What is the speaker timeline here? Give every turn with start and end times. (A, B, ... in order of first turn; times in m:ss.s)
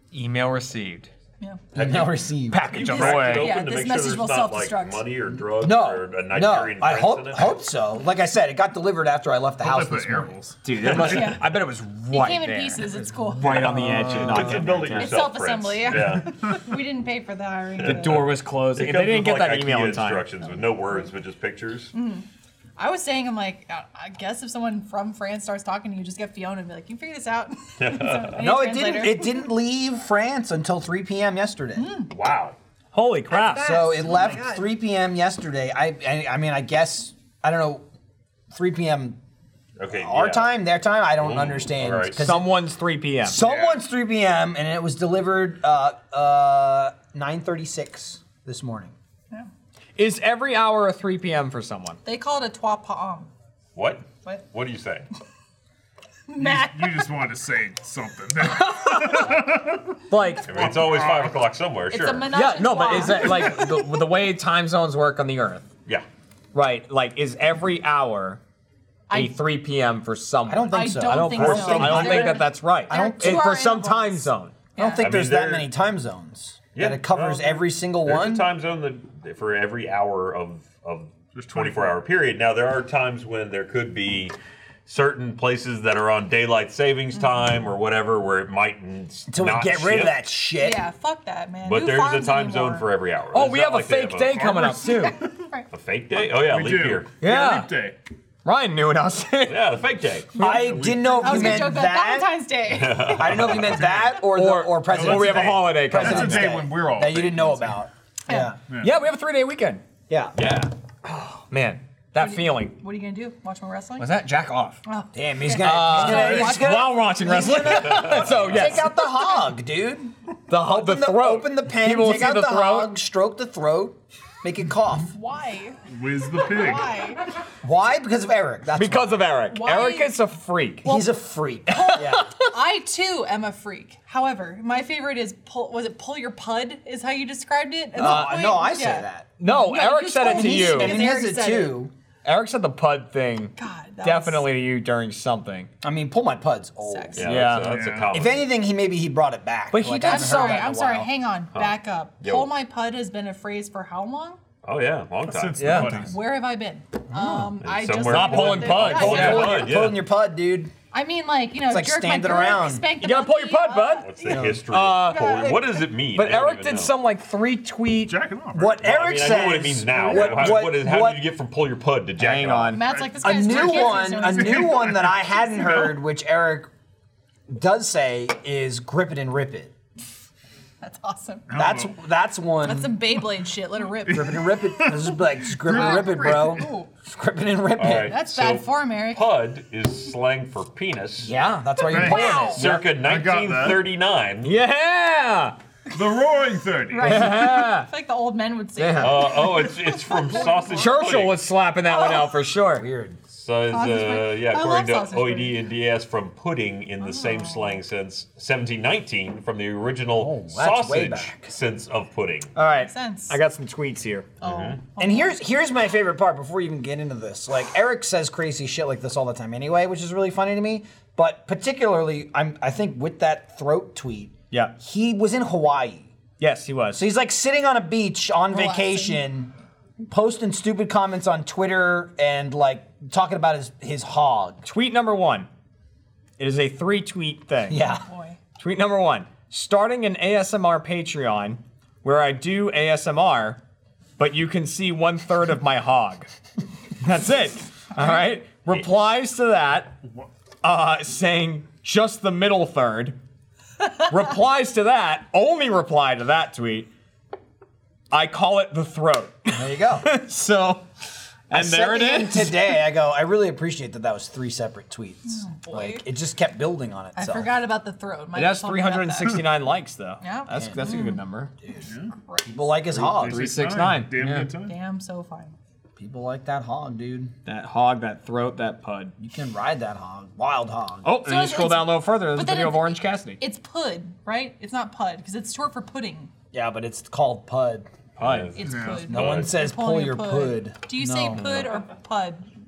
0:00.1-0:01.1 A
0:01.7-0:03.3 B
0:01.8-0:07.6 C
0:02.5-0:03.6 A
0:02.7-0:05.0 D
0:05.6-0:10.4 B
0:09.6-0:11.2 E
0:10.6-0:15.3 A
0:10.9-0:11.5 D
0:12.1-0:14.0 D
0:13.4-0:16.5 C
0:15.0-0:18.2 D
0:17.8-0:21.9 C
0:17.8-0:20.3 A
0:20.4-0:21.1 D
0:21.9-0:22.3 D
0:22.8-0:29.5 D
0:27.8-0:28.4 C
0:28.4-0:31.9 B
0:31.8-0:32.1 D
0:32.1-0:32.6 C
0:32.9-0:33.8 A
0:33.3-0:34.7 D
0:33.5-0:37.8 B
0:38.5-0:39.2 B
0:39.8-0:40.6 C
0:39.9-0:42.5 B
0:41.2-0:42.3 C
0:42.2-0:43.4 A
0:43.2-0:48.9 B
0:43.4-0:43.8 C
0:50.0-0:52.0 A
0:52.0-0:53.3 D
0:53.8-0:55.1 C
0:56.3-0:57.1 D
0:56.4-1:00.0 E
0:58.5-0:59.4 A
1:00.1-1:00.8 A
1:00.5-1:02.3 C
1:00.6-1:00.9 E
1:01.9-1:03.7 D
1:02.3-1:05.7 A
1:06.5-1:08.4 A
1:09.1-1:09.4 D
1:09.1-1:14.6 A
1:10.5-1:13.5 B
1:10.7-1:15.1 D
1:11.4-1:12.1 C
1:14.8-1:18.5 B
1:15.0-1:15.7 C
1:16.7-1:24.3 C
1:21.4-1:22.0 E
1:24.9-1:30.3 C
1:29.3-1:30.8 B
1:30.6-1:32.9 D
1:31.6-1:34.5 C
1:33.3-1:35.2 A
1:34.5-1:35.7 D
1:35.7-1:37.1 C
1:36.3-1:38.0 E
1:37.2-1:37.7 A
1:38.4-1:39.7 A
1:39.5-1:40.3 C
1:40.4-1:42.4 B
1:40.4-1:41.7 E
1:41.2-1:43.5 D
1:42.7-1:44.0 C
1:43.2-1:48.6 B
1:43.6-1:44.1 E
1:44.3-1:46.6 A
1:44.9-1:47.8 E
1:48.7-1:49.0 E
1:48.8-1:49.8 A
1:50.1-1:50.4 B
1:50.4-1:50.7 C
1:51.4-1:52.8 A
1:52.2-1:54.2 D
1:54.0-1:54.8 A
1:54.8-1:56.9 D
1:55.1-2:05.1 B
1:55.6-1:59.2 A
1:57.8-1:58.8 C
2:00.5-2:03.0 A
2:05.1-2:05.8 D
2:05.9-2:06.9 E
2:06.4-2:07.2 D
2:07.6-2:09.3 B
2:08.7-2:10.9 A
2:09.5-2:10.2 D
2:10.8-2:12.3 B
2:10.8-2:11.1 D
2:11.7-2:21.8 D
2:12.0-2:12.3 A
2:18.0-2:19.3 B
2:18.0-2:18.3 A
2:19.4-2:21.0 A
2:20.2-2:21.9 B
2:22.2-2:25.7 A
2:23.6-2:24.5 D
2:25.8-2:27.5 B
2:26.8-2:27.3 D
2:27.2-2:28.5 C
2:27.2-2:27.9 A
2:27.6-2:28.2 E
2:28.1-2:31.1 B
2:29.7-2:30.7 A
2:30.0-2:34.4 D
2:31.5-2:32.5 C
2:34.6-2:36.0 C
2:35.2-2:36.2 E
2:35.6-2:36.1 A
2:35.9-2:39.7 D
2:37.1-2:39.7 A
2:37.6-2:40.1 C
2:38.9-2:40.7 B
2:40.9-2:44.4 D
2:41.7-2:42.9 B
2:43.0-2:45.5 A
2:44.0-2:46.9 C
2:44.3-2:44.6 B
2:45.0-2:45.8 D
2:46.1-2:48.2 A
2:48.0-2:48.9 E
2:48.5-2:51.2 B
2:48.8-2:52.8 C
2:52.2-2:52.8 A
2:52.7-2:55.0 D
2:52.8-2:56.0 E
2:53.2-2:56.7 B
2:57.5-2:59.7 B
3:00.8-3:01.5 D
3:01.5-3:02.0 E
3:01.6-3:03.0 B
3:02.6-3:04.5 D
3:04.1-3:06.7 E
3:04.1-3:08.1 B
3:05.7-3:06.9 D
3:07.8-3:11.3 C
3:08.0-3:09.3 D
3:11.2-3:12.9 B
3:11.8-3:12.7 D
3:11.9-3:13.9 E
3:12.4-3:14.6 C
3:14.4-3:15.6 A
3:15.9-3:17.3 E
3:16.9-3:20.9 D
3:17.0-3:17.9 A
3:18.8-3:19.3 A
3:19.0-3:21.4 C
3:20.7-3:22.9 A
3:21.9-3:22.3 D
3:22.7-3:23.2 B
3:23.3-3:32.5 C
3:23.7-3:25.6 D
3:27.0-3:27.8 D
3:30.2-3:31.5 B
3:32.6-3:34.3 A
3:32.8-3:33.4 D
3:34.4-3:34.8 C
3:34.4-3:35.4 D
3:35.0-3:46.2 B
3:46.4-3:47.0 A
3:46.9-3:49.5 B
3:48.5-3:49.2 D
3:50.0-3:54.6 B
3:54.6-3:55.5 A
3:56.4-3:57.8 A
3:57.7-3:58.1 B
3:57.9-3:58.4 D
3:58.6-4:03.6 A
4:04.2-4:06.3 A
4:07.0-4:10.0 A
4:10.6-4:13.2 A
4:14.1-4:16.9 A
4:18.1-4:20.9 A
4:19.5-4:20.2 B
4:21.5-4:22.8 A
4:21.5-4:27.6 B
4:25.3-4:26.0 D
4:27.2-4:29.4 D
4:28.4-4:31.5 A
4:30.2-4:31.2 D
4:30.5-4:31.1 B
4:31.6-4:31.9 B
4:31.9-4:32.1 E
4:32.2-4:32.5 D
4:32.5-4:33.5 B
4:32.9-4:34.5 A
4:33.0-4:34.8 E
4:34.6-4:35.6 D
4:36.0-4:37.3 B
4:37.4-4:39.2 A
4:39.2-4:41.1 B
4:41.0-4:43.4 A
4:41.2-4:46.3 D
4:46.5-4:47.9 B
4:48.2-4:49.5 C
4:48.2-4:48.5 A
4:48.6-4:52.5 D
4:48.6-4:49.1 E
4:49.1-4:51.7 B
4:51.4-4:51.7 C